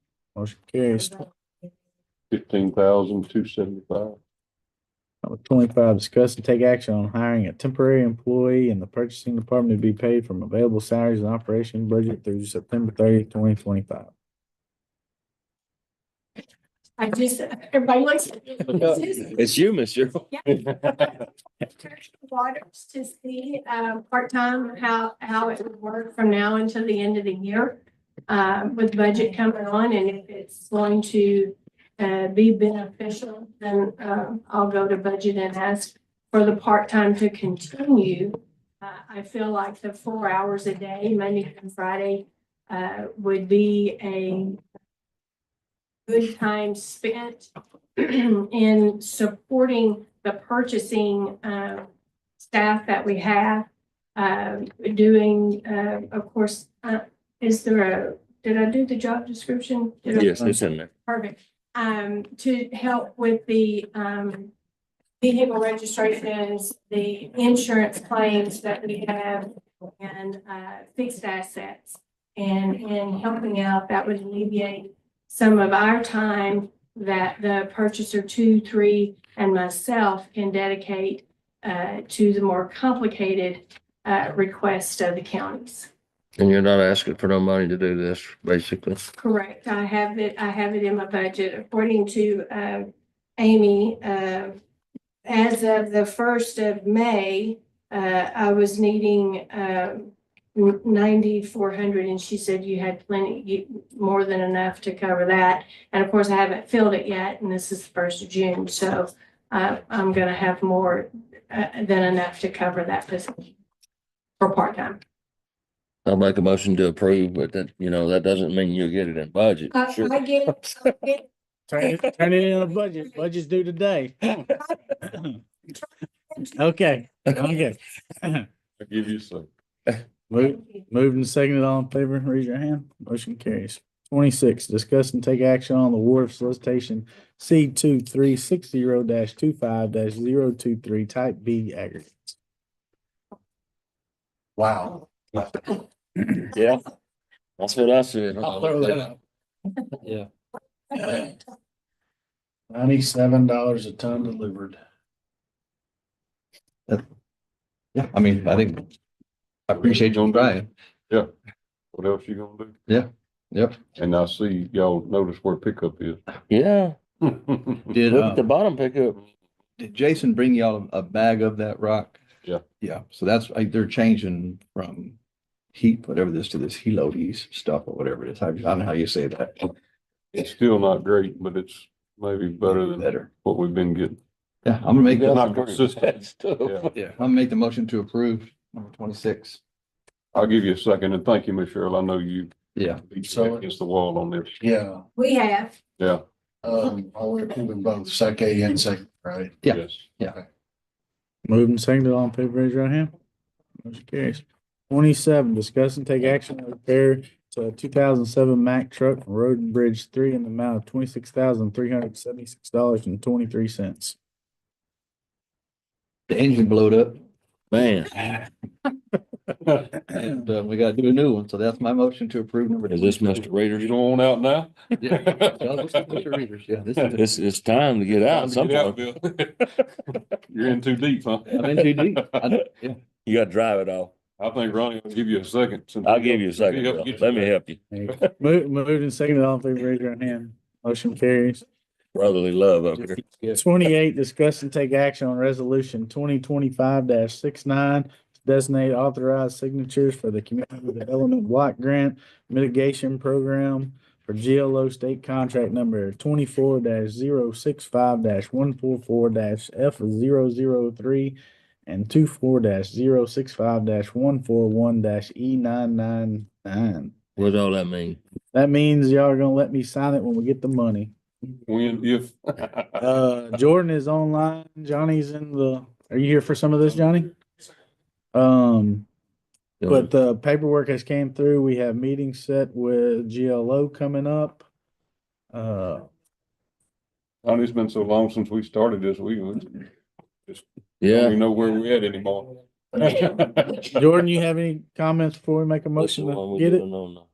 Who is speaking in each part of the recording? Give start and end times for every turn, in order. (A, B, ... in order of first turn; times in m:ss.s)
0:00.3-0:01.2 A
0:02.3-0:04.2 B
0:05.2-0:14.1 A
0:17.0-0:19.4 C
0:19.3-0:20.2 D
0:20.4-0:21.0 B
0:21.7-0:44.6 C
0:46.1-0:51.9 C
0:52.4-1:04.5 C
1:00.1-1:00.9 D
1:05.2-1:25.9 C
1:26.4-1:29.1 D
1:29.2-1:34.6 C
1:35.3-1:53.5 C
1:54.4-1:55.0 C
1:56.0-2:00.1 D
1:59.7-2:01.2 C
2:01.7-2:04.5 A
2:05.1-2:05.4 A
2:06.5-2:08.4 A
2:08.8-2:09.5 B
2:10.3-2:22.4 A
2:24.6-2:25.4 E
2:26.5-2:26.8 D
2:27.6-2:29.0 D
2:30.0-2:30.3 F
2:32.8-2:34.7 A
2:32.8-2:34.7 E
2:37.9-2:38.8 F
2:39.7-2:40.7 F
2:39.7-2:40.6 B
2:41.9-2:42.7 B
2:42.9-2:43.8 F
2:44.0-2:46.2 B
2:46.5-2:47.0 D
2:47.2-2:47.8 B
2:47.9-2:48.4 F
2:48.1-2:49.2 D
2:49.8-2:52.2 F
2:52.8-2:55.2 F
2:55.7-2:59.7 F
3:00.3-3:04.2 B
3:02.7-3:03.3 F
3:04.6-3:05.4 F
3:05.0-3:06.9 D
3:05.3-3:06.9 B
3:06.9-3:09.6 F
3:10.3-3:12.5 B
3:12.7-3:13.0 F
3:13.0-3:14.6 B
3:13.3-3:13.6 E
3:14.6-3:15.0 E
3:15.2-3:15.8 C
3:16.6-3:19.6 E
3:19.6-3:20.4 F
3:19.7-3:20.0 B
3:21.5-3:23.1 A
3:23.8-3:34.2 A
3:36.3-3:37.2 F
3:37.7-3:38.1 D
3:39.6-3:39.9 B
3:40.1-3:43.3 F
3:42.9-3:43.9 D
3:43.4-3:46.3 B
3:45.0-3:47.2 F
3:47.1-3:49.0 D
3:48.3-3:49.7 B
3:50.5-3:52.3 B
3:51.5-3:53.0 F
3:53.2-3:54.1 D
3:54.4-3:57.5 B
3:56.0-3:57.8 D
3:57.9-4:01.6 A
4:02.1-4:03.2 D
4:03.2-4:03.6 F
4:03.5-4:27.1 A
4:27.4-4:28.2 D
4:28.5-4:31.1 A
4:31.7-4:33.0 B
4:33.0-4:37.3 A
4:38.3-4:39.1 A
4:39.8-4:40.1 D
4:39.9-4:44.6 A
4:45.5-4:46.1 A
4:47.4-4:49.8 B
4:50.5-4:53.9 B
4:51.0-4:51.3 D
4:53.9-4:56.8 A
4:56.0-4:57.2 D